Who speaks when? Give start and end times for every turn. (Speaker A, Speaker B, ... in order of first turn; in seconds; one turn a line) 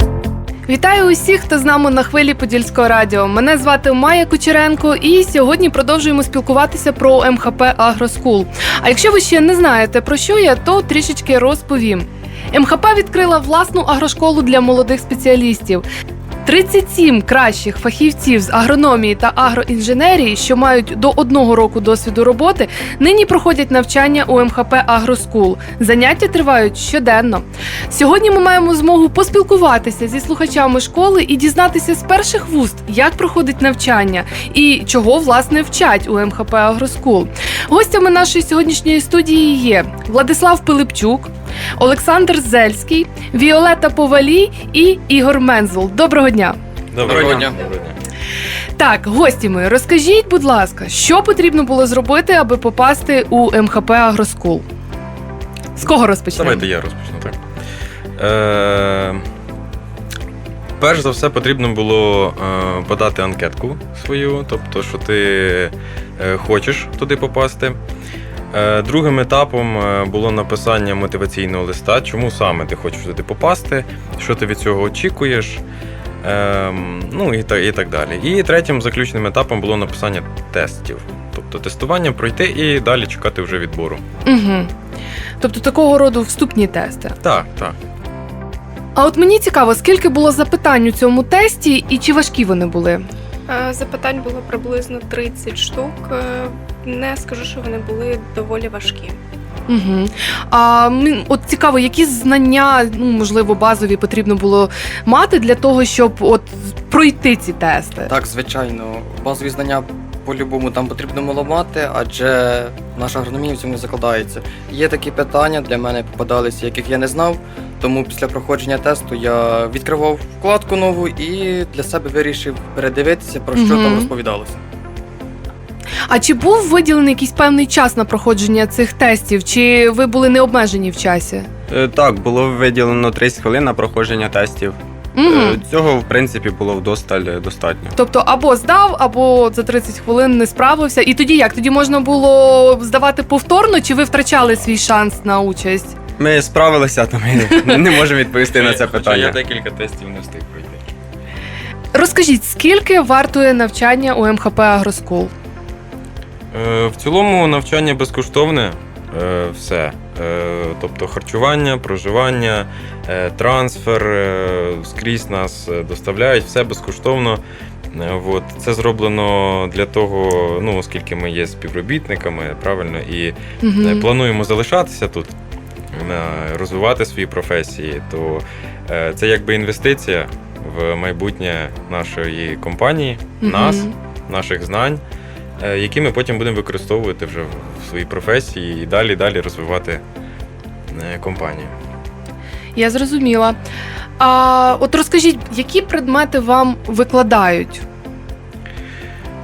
Speaker A: 0.7-15.8
Speaker A: 16.4-46.6
Speaker B: 46.9-48.0
Speaker C: 47.0-47.6
Speaker A: 48.8-54.6
Speaker A: 55.7-56.7
Speaker B: 56.3-57.4
Speaker B: 58.2-59.2
Speaker B: 60.8-67.8
Speaker B: 68.5-75.6
Speaker B: 76.2-84.0
Speaker A: 84.2-84.7
Speaker A: 85.4-87.2
Speaker B: 87.2-87.8
Speaker A: 88.9-93.1
Speaker D: 93.5-99.2
Speaker A: 99.7-108.1
Speaker C: 108.1-124.6
Speaker A: 123.5-124.1
Speaker A: 126.1-131.5
Speaker E: 131.7-137.9
Speaker A: 135.2-135.6
Speaker A: 137.9-145.9
Speaker E: 146.2-149.4
Speaker A: 147.5-147.8
Speaker B: 148.5-150.8
Speaker A: 151.9-155.3
Speaker B: 156.5-167.4
Speaker B: 167.9-175.3
Speaker A: 173.6-174.1
Speaker B: 175.9-185.0
Speaker A: 183.4-183.9
Speaker B: 185.6-190.0
Speaker B: 190.9-191.7
Speaker A: 192.7-193.6
Speaker A: 194.2-197.8